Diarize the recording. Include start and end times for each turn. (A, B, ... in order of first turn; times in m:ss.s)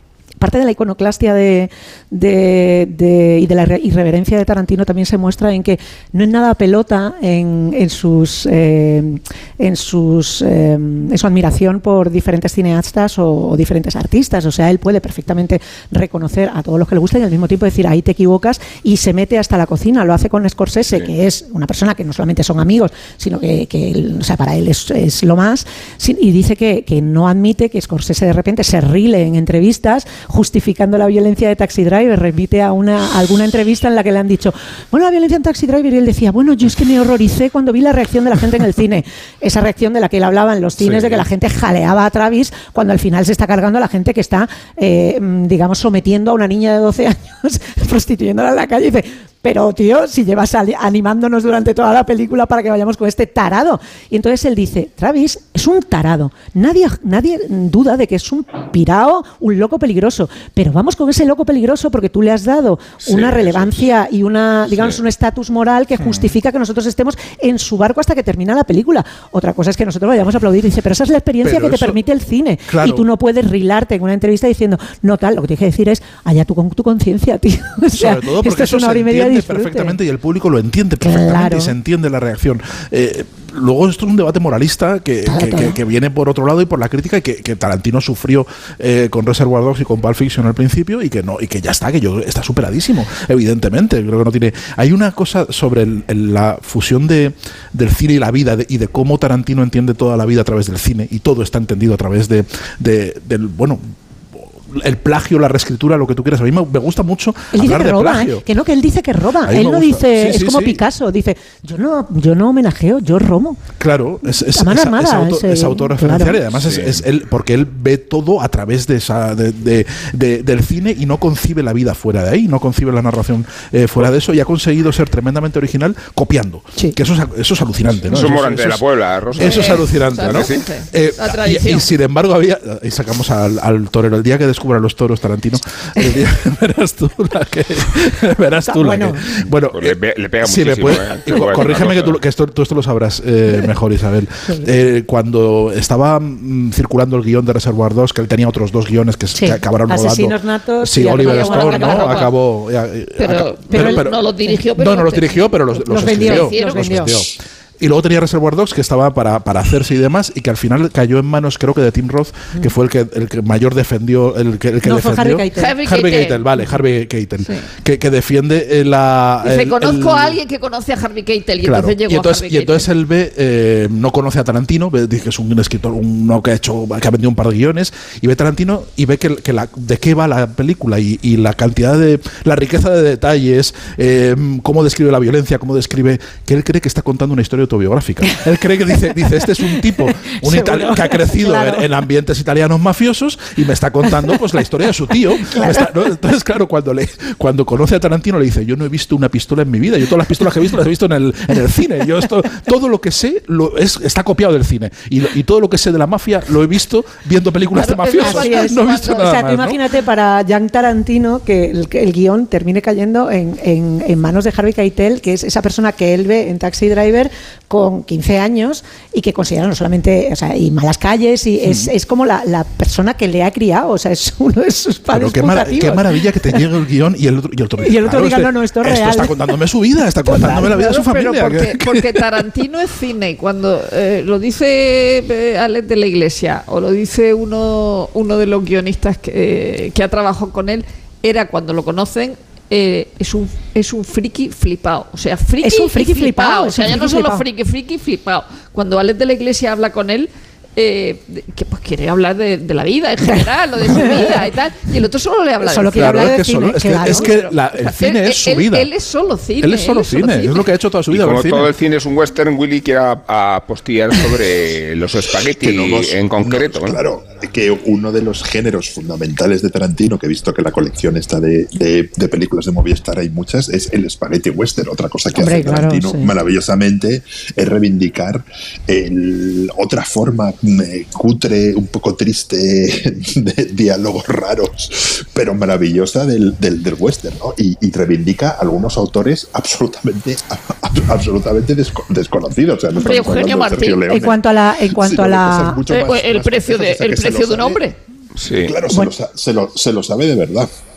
0:00.4-1:20.0 A
0:40.8-0:41.2 B
1:03.0-1:03.8 C
1:06.0-1:06.3 B
1:11.4-1:12.0 B
1:12.7-1:13.0 B
1:18.0-1:48.4 B
1:21.0-1:21.7 A
1:25.2-1:25.8 A
1:47.5-1:53.6 A
1:49.5-1:50.8 B
1:53.8-2:08.8 B
1:54.3-1:56.4 A
1:56.6-1:57.0 C
2:08.1-2:10.6 C
2:09.3-2:34.2 B
2:09.4-2:11.9 D
2:18.7-2:19.2 A
2:19.7-2:22.2 C
2:29.3-2:32.2 A
2:31.2-2:32.3 D
2:33.2-2:37.2 D
2:33.7-2:34.6 A
2:34.7-2:50.4 B
2:35.8-2:37.2 A
2:44.8-2:45.7 A
2:45.5-2:46.5 D
2:49.4-2:52.9 D
2:51.6-3:29.8 B
3:09.6-3:11.8 A
3:15.4-3:15.9 A
3:27.7-3:29.1 D
3:28.2-3:46.6 A
3:41.6-3:41.9 B
3:45.1-3:52.2 B
3:47.8-3:49.3 A
3:50.3-3:50.8 A
3:50.6-4:16.3 D
4:05.6-4:07.5 A
4:13.8-4:14.3 A
4:15.6-4:17.3 A
4:16.0-4:18.9 B
4:17.0-4:20.6 D
4:19.6-4:21.7 B
4:21.1-4:27.0 C
4:25.4-4:57.8 E
4:35.3-4:36.3 A
4:52.9-4:54.1 D
4:54.1-4:55.8 A
4:55.9-4:58.0 D
4:58.4-4:58.7 C
4:58.6-5:00.7 E